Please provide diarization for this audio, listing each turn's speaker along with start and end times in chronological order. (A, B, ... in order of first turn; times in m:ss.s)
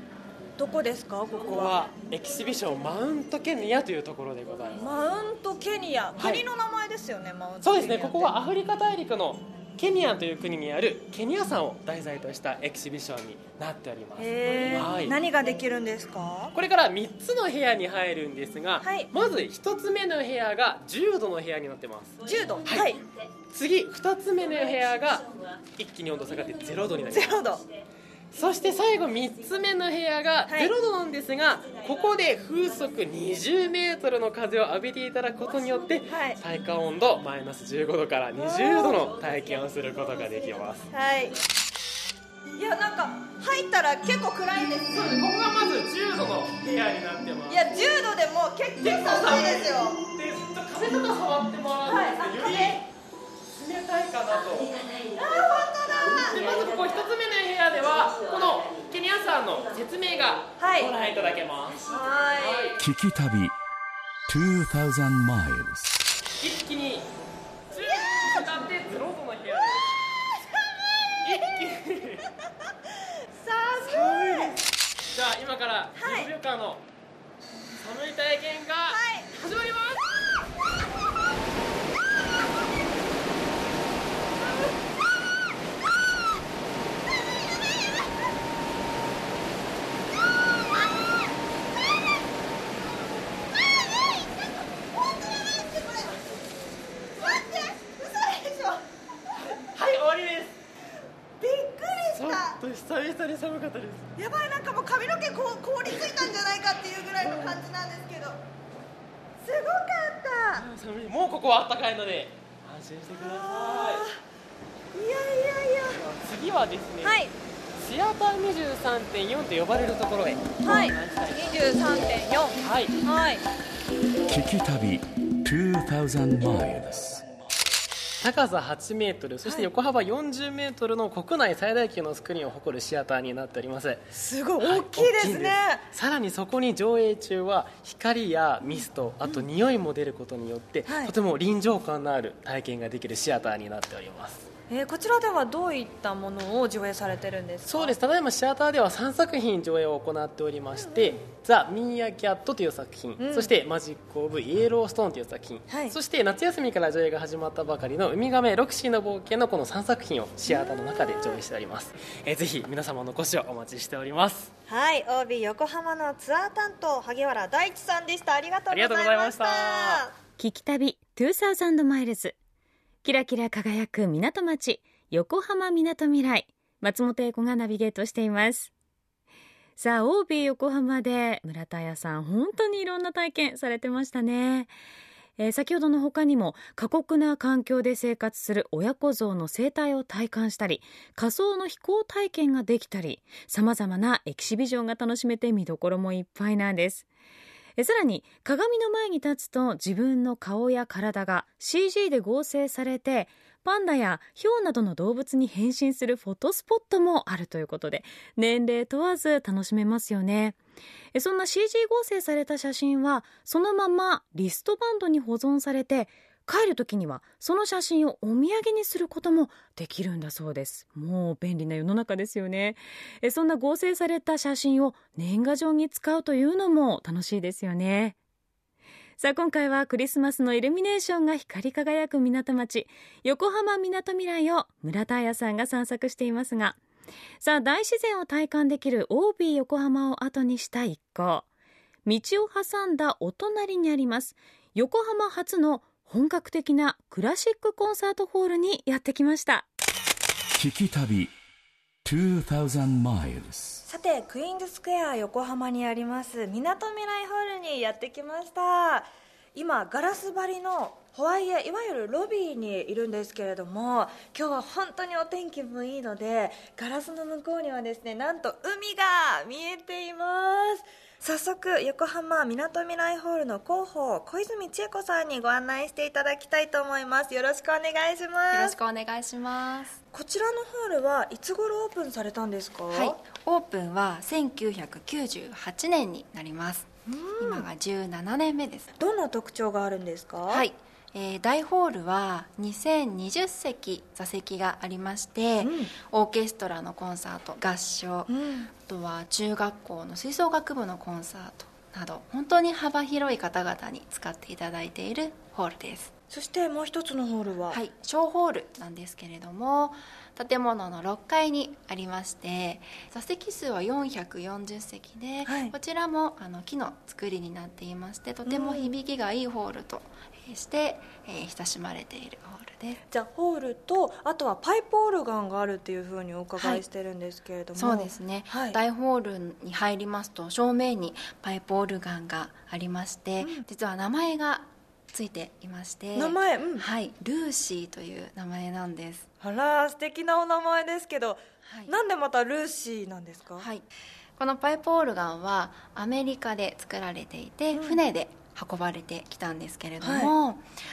0:00.6-0:01.8 A
0:01.4-0:04.8 B
0:04.8-0:08.3 A
0:06.2-0:06.4 B
0:07.6-0:15.2 B
0:14.2-0:16.5 A
0:16.5-0:23.0 B
0:18.8-0:19.1 A
0:22.2-0:23.0 A
0:23.5-0:27.6 B
0:27.1-0:27.6 A
0:28.3-0:40.9 B
0:30.5-0:30.7 A
0:36.1-0:36.4 A
0:38.4-0:39.0 A
0:40.9-0:41.4 A
0:42.6-0:45.1 A
0:44.9-0:47.7 B
0:47.5-0:50.0 A
0:48.8-0:52.8 B
0:51.9-0:52.8 A
0:53.5-0:54.8 B
0:55.2-0:56.4 A
0:56.0-1:01.9 B
1:00.6-1:00.9 A
1:01.9-1:02.8 A
1:02.4-1:02.8 B
1:02.8-1:03.6 C
1:04.3-1:06.1 C
1:06.4-1:07.1 B
1:07.7-1:10.0 B
1:07.9-1:08.4 A
1:11.2-1:12.3 B
1:13.3-1:14.6 A
1:13.8-1:16.8 B
1:16.0-1:16.3 A
1:17.8-1:20.2 B
1:18.9-1:19.3 A
1:34.0-1:34.3 A
1:35.4-1:36.1 A
1:37.2-1:38.8 A
1:39.4-1:40.6 B
1:41.4-1:42.6 A
1:42.1-1:44.1 B
1:44.2-1:48.4 A
1:47.2-1:47.6 B
1:49.4-1:50.6 A
1:50.5-1:54.1 B
1:53.2-1:54.2 A
1:54.9-1:56.0 A
1:55.9-1:57.2 B
1:57.0-1:57.3 A
1:57.8-2:01.8 B
2:00.6-2:03.4 A
2:02.6-2:03.0 B
2:04.3-2:07.4 C
2:08.2-2:14.0 B
2:14.1-2:15.8 A
2:14.6-2:24.5 B
2:18.6-2:19.5 A
2:20.9-2:21.1 A
2:24.7-2:28.0 A
2:27.7-2:44.5 B
2:30.8-2:31.2 A
2:33.2-2:33.5 A
2:35.7-2:36.0 A
2:40.5-2:41.4 A
2:44.7-2:50.1 A
2:48.7-2:50.1 B
2:50.4-2:52.4 D
2:53.0-2:58.7 D
2:59.8-3:04.7 D
3:05.4-3:17.1 D
3:17.8-3:30.6 D
3:31.1-3:48.2 D
3:49.2-3:56.8 D
3:57.4-4:01.5 D
4:02.1-4:09.7 D
4:10.6-4:11.3 C
4:12.0-4:13.8 C
4:13.8-4:38.8 A
4:38.5-4:40.0 E
4:40.1-4:43.2 A
4:42.9-4:49.0 E
4:47.1-4:47.7 A
4:49.0-4:50.7 A
4:50.5-5:06.1 E
4:55.6-4:55.9 A
4:58.3-4:58.7 A
5:06.3-5:07.8 A
5:07.7-5:23.0 E
5:15.4-5:15.7 A
5:18.5-5:18.9 A
5:23.1-5:28.8 A
5:26.6-5:26.8 E
5:27.8-5:39.3 E
5:36.2-5:36.9 A
5:39.4-5:43.7 A
5:41.6-5:41.9 E
5:43.6-5:43.8 E
5:44.4-5:50.6 E
5:47.8-5:48.0 A
5:50.0-5:50.3 A